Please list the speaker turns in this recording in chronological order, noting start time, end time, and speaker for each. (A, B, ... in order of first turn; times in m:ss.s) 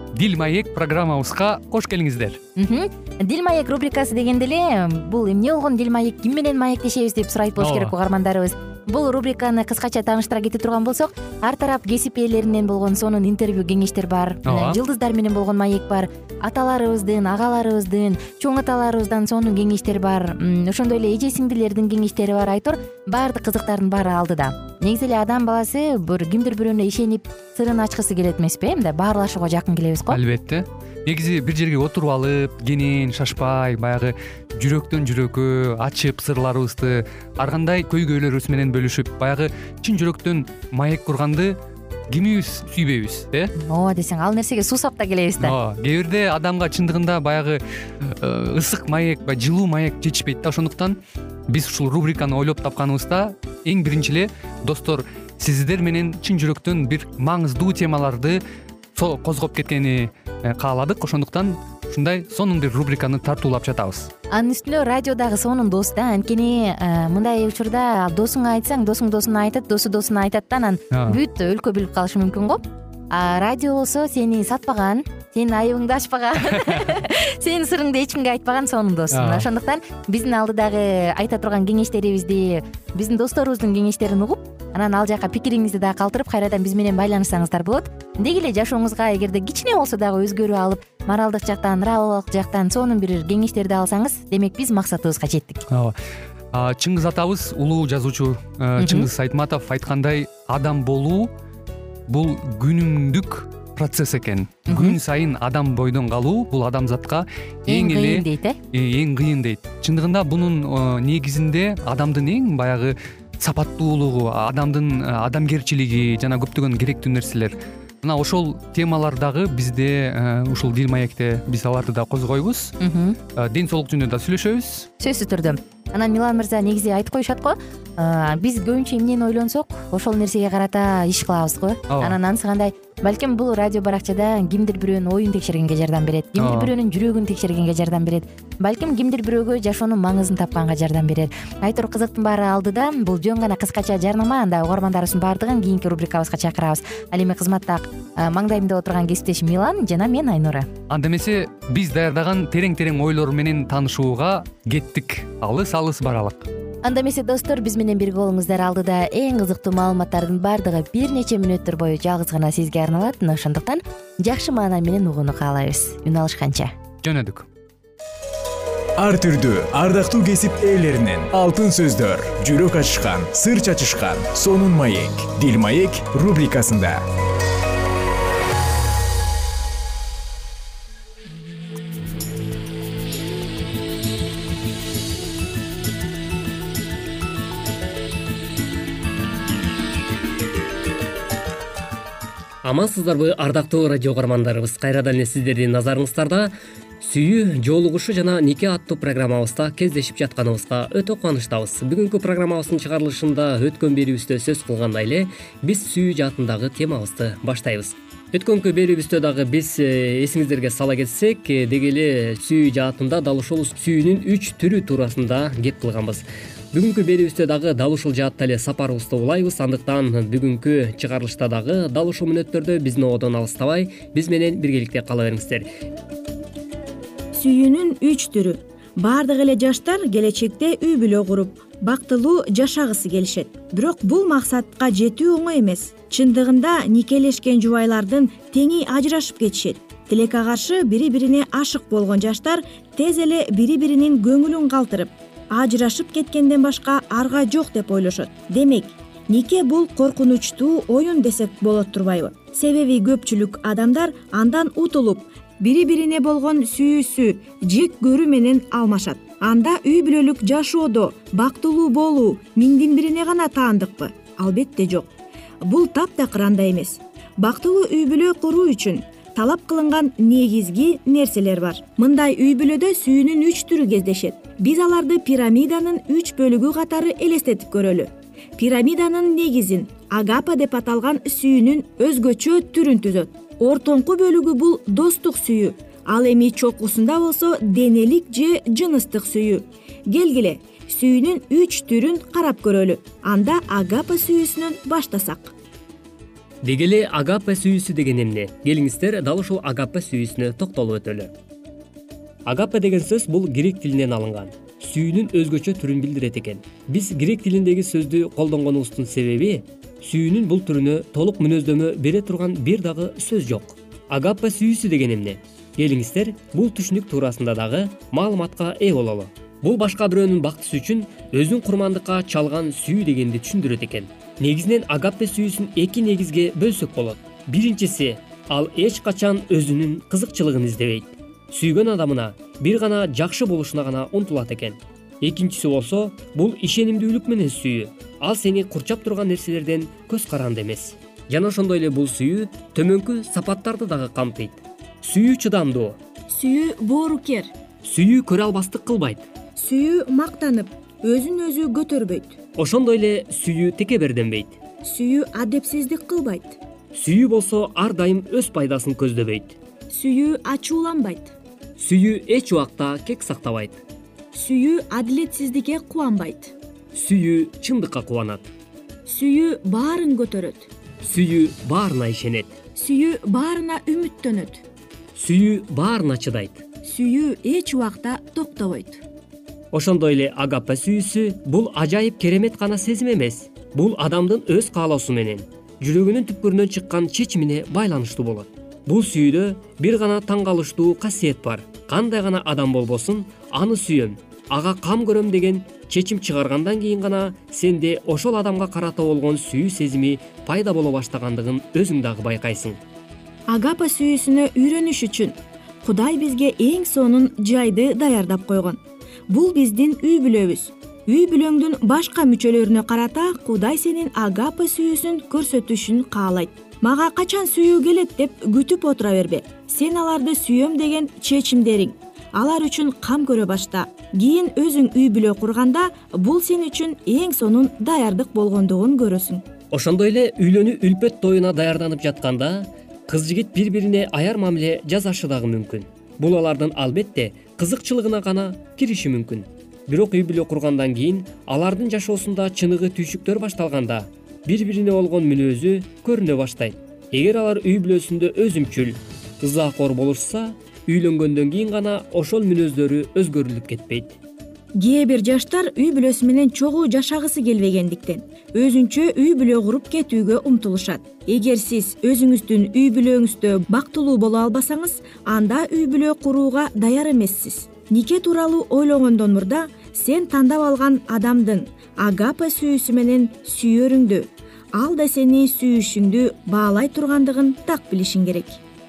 0:00.1-0:02.4 A
0:02.6-0:30.2 B
0:07.6-0:07.9 A
0:14.5-0:14.8 A
0:30.1-0:41.6 A
0:42.1-0:43.5 A
0:43.6-0:45.6 B
0:45.4-0:51.0 A
0:51.5-0:58.4 A
0:59.0-1:04.1 A
1:04.3-1:35.7 B
1:10.9-1:11.2 A
1:19.1-1:19.5 A
1:35.7-1:36.0 A
1:36.5-1:41.3 A
1:38.8-1:39.1 B
1:42.1-2:02.8 A
1:44.7-1:45.0 B
1:47.7-1:48.6 B
2:02.8-2:03.2 B
2:03.4-2:04.9 A
2:05.0-2:30.7 B
2:11.9-2:12.2 A
2:16.4-2:16.7 A
2:30.9-2:36.5 A
2:36.8-2:46.7 B
2:47.0-2:47.5 A
2:49.0-2:57.0 C
3:12.6-3:45.7 D
3:47.3-4:25.1 E
4:25.6-4:55.5 E
4:56.6-5:01.3 D
5:02.5-5:46.0 D
5:46.3-5:47.5 E
5:47.8-5:49.3 D
5:49.6-5:52.4 E
5:52.6-5:54.6 D
5:54.8-5:56.6 E
5:56.9-5:59.6 D
5:59.9-6:01.4 E
6:01.8-6:03.8 D
6:04.3-6:06.5 E
6:06.9-6:08.5 D
6:09.1-6:10.7 E
6:11.0-6:12.6 D
6:12.8-6:14.6 E
6:15.2-6:16.6 D
6:16.8-6:19.0 E
6:19.7-6:42.8 D
6:43.5-7:09.4 E
7:09.7-7:34.2 D
7:34.8-7:58.6 E